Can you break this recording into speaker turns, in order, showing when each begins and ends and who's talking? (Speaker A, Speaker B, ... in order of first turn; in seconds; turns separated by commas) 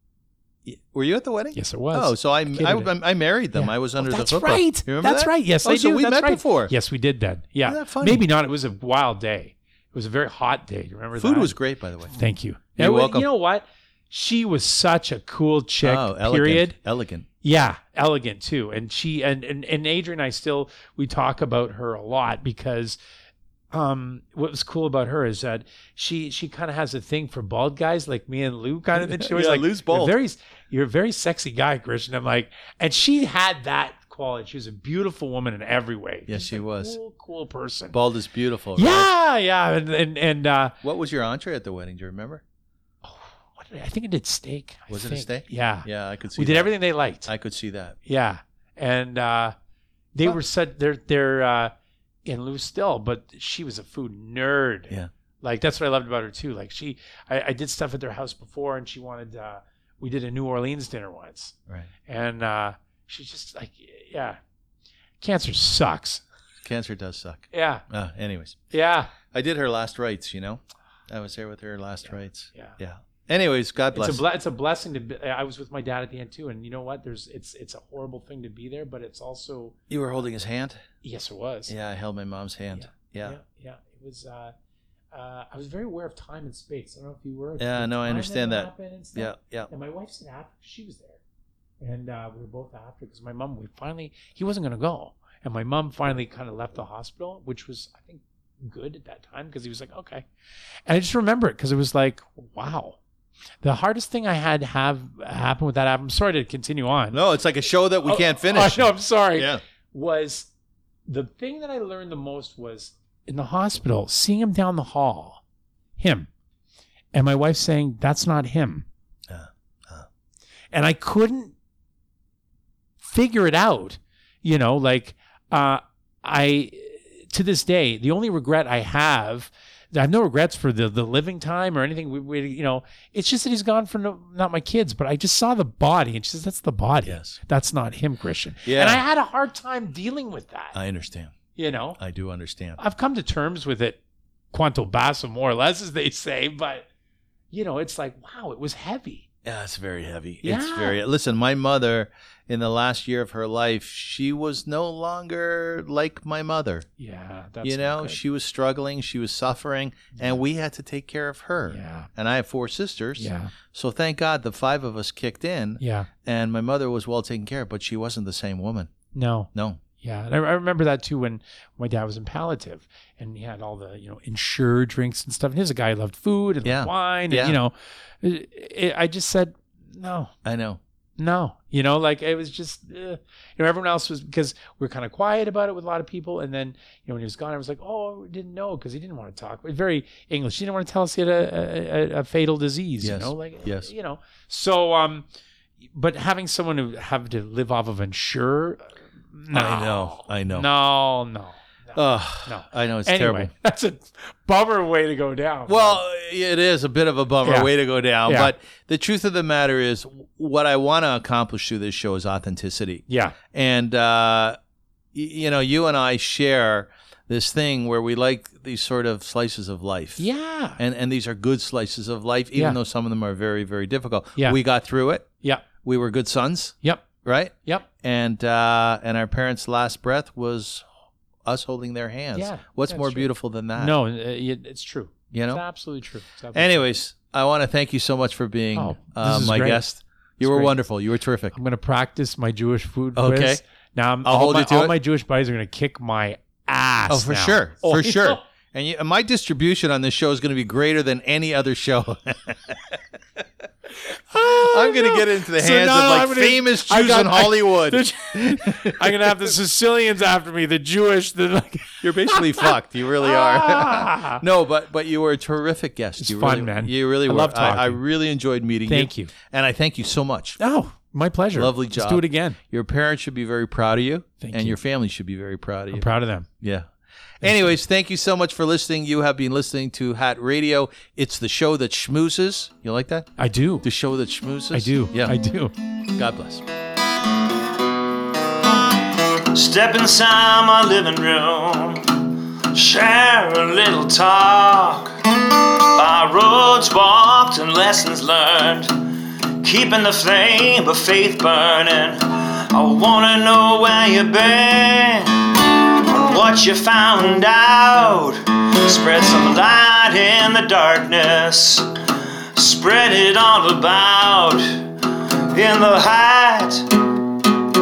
Speaker A: 0.7-6.7, Speaker B: 1.5-2.9, Speaker B: 3.5-11.5, Speaker A: 7.7-8.3, Speaker A: 11.2-12.2, Speaker B: 12.1-16.8, Speaker A: 12.8-13.3, Speaker A: 15.8-17.3, Speaker B: 17.4-23.0, Speaker B: 23.7-38.0, Speaker A: 28.9-30.1, Speaker A: 36.3-37.0, Speaker A: 37.9-39.1, Speaker B: 38.8-40.7, Speaker A: 40.8-42.4, Speaker B: 43.0-47.3, Speaker A: 44.9-46.7, Speaker A: 47.2-48.0, Speaker B: 48.1-49.5, Speaker B: 50.1-51.7, Speaker B: 52.3-64.4, Speaker B: 65.2-66.2, Speaker A: 66.6-68.6, Speaker B: 67.5-67.8, Speaker B: 68.7-69.1, Speaker A: 69.3-74.2, Speaker B: 72.5-72.8, Speaker B: 74.0-79.8, Speaker A: 79.9-80.8, Speaker B: 81.0-81.7, Speaker A: 81.7-83.4, Speaker B: 82.7-84.5, Speaker B: 85.1-91.2, Speaker A: 87.6-89.7, Speaker B: 91.8-100.3, Speaker B: 100.9-103.0, Speaker B: 103.6-107.2, Speaker A: 107.1-109.6, Speaker B: 108.0-110.5, Speaker B: 111.1-115.4, Speaker B: 116.0-116.3, Speaker B: 117.1-118.9, Speaker A: 119.3-120.1, Speaker B: 120.7-121.5, Speaker B: 123.0-140.8, Speaker A: 137.1-137.4, Speaker A: 138.7-139.0, Speaker A: 140.7-141.4, Speaker B: 141.6-142.0, Speaker A: 142.0-142.8, Speaker B: 142.8-144.0, Speaker B: 144.5-146.9, Speaker B: 147.5-149.3, Speaker A: 149.4-156.9, Speaker B: 150.4-151.0, Speaker B: 157.0-158.2, Speaker A: 157.6-168.9, Speaker B: 161.7-162.1, Speaker B: 163.2-163.5, Speaker B: 165.8-166.1, Speaker B: 169.1-180.3, Speaker A: 169.5-169.8, Speaker A: 176.7-177.6, Speaker A: 180.4-180.8, Speaker B: 181.2-195.3, Speaker A: 193.0-193.9, Speaker B: 195.9-206.0, Speaker A: 199.5-200.7, Speaker A: 201.9-203.5, Speaker A: 205.7-214.6, Speaker B: 207.4-207.7, Speaker B: 208.3-208.5, Speaker B: 213.1-213.4, Speaker A: 215.1-225.3, Speaker B: 220.2-220.8, Speaker A: 225.8-230.8, Speaker A: 231.4-233.9, Speaker B: 232.3-236.8, Speaker A: 235.3-235.6, Speaker A: 236.5-241.6, Speaker B: 238.8-239.8, Speaker B: 240.4-240.8, Speaker B: 241.5-248.4, Speaker A: 243.2-243.6, Speaker A: 244.2-244.9, Speaker A: 247.1-253.4, Speaker B: 254.1-264.4, Speaker A: 254.3-259.5, Speaker A: 262.0-270.6, Speaker B: 266.2-268.0, Speaker B: 268.9-269.3, Speaker B: 270.6-272.6, Speaker A: 271.6-276.1, Speaker B: 274.4-274.8, Speaker B: 275.9-276.5, Speaker A: 276.6-276.9, Speaker A: 277.4-283.3, Speaker B: 277.4-277.8, Speaker B: 283.4-283.9, Speaker A: 283.8-285.4, Speaker B: 284.7-285.7, Speaker A: 286.1-286.6, Speaker C: 289.5-299.1, Speaker C: 299.6-317.4